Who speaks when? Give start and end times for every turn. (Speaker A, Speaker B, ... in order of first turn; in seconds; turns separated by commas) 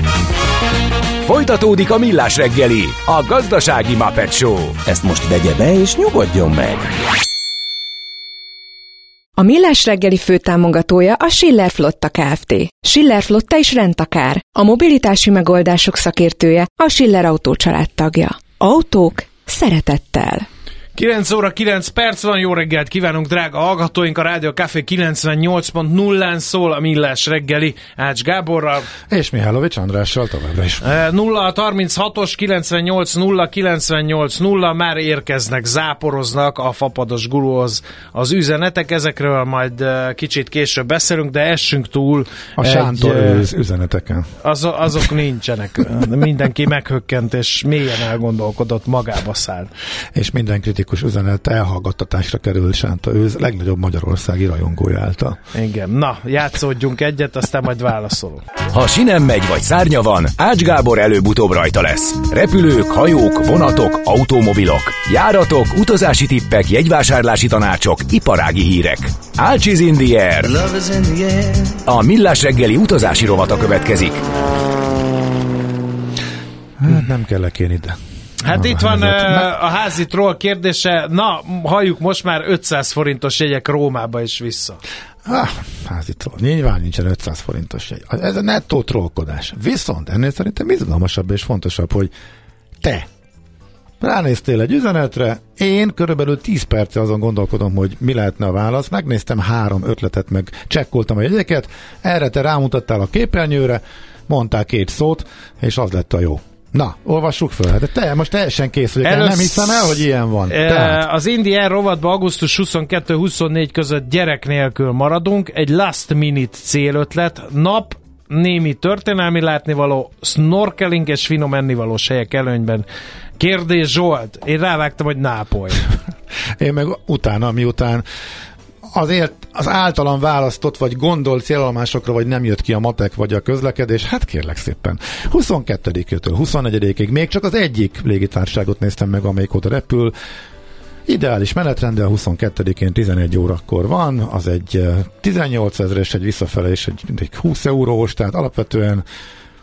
Speaker A: 1.2-4.8, Speaker B: 4.8-7.0, Speaker C: 9.4-20.5, Speaker D: 20.9-28.9, Speaker E: 29.1-31.0, Speaker D: 30.8-43.5, Speaker E: 42.6-44.3, Speaker D: 44.4-49.7, Speaker E: 50.1-55.4, Speaker D: 55.5-58.4, Speaker A: 58.7-70.6, Speaker B: 70.4-71.8, Speaker A: 71.8-74.2, Speaker E: 76.8-79.5, Speaker D: 78.4-84.8, Speaker E: 85.2-92.1, Speaker E: 92.8-93.1, Speaker E: 94.0-111.0, Speaker D: 109.0-122.8, Speaker D: 123.4-125.9, Speaker E: 126.6-128.1, Speaker E: 128.9-140.2, Speaker E: 141.1-149.1